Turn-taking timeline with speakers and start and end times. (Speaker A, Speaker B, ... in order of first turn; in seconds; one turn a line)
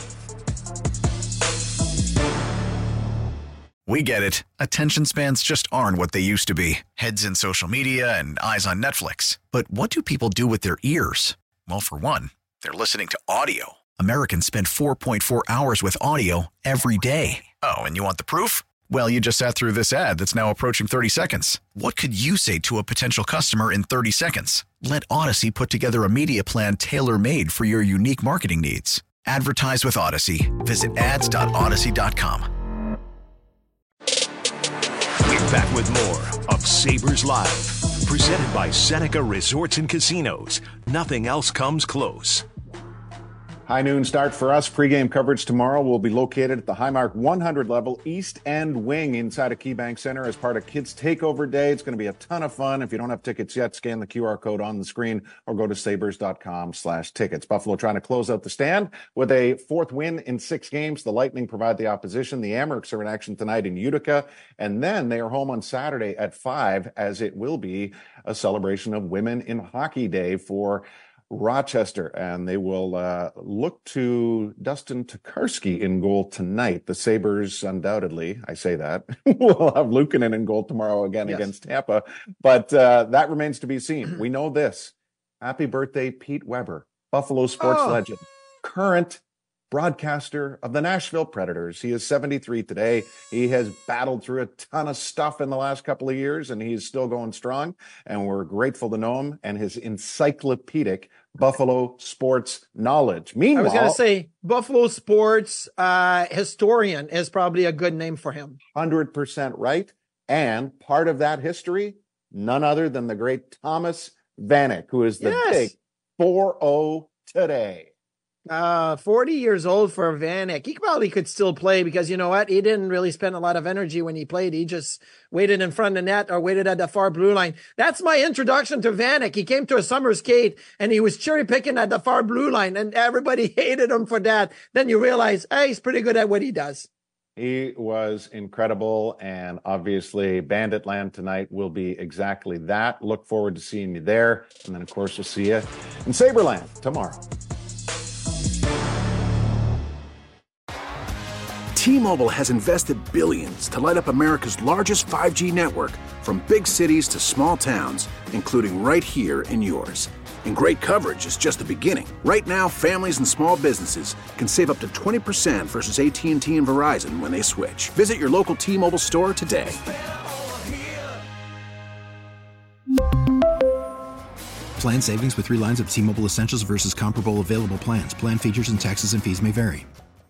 Speaker A: 3.9-32.5
Speaker B: 35.2-42.5
Speaker C: 43.6-104.0
Speaker D: 87.6-88.0
Speaker D: 103.5-108.6
Speaker C: 108.7-117.9
Speaker D: 115.2-115.7
Speaker D: 118.5-136.9
Speaker C: 137.3-147.2
Speaker E: 151.7-169.8
Speaker F: 174.8-179.9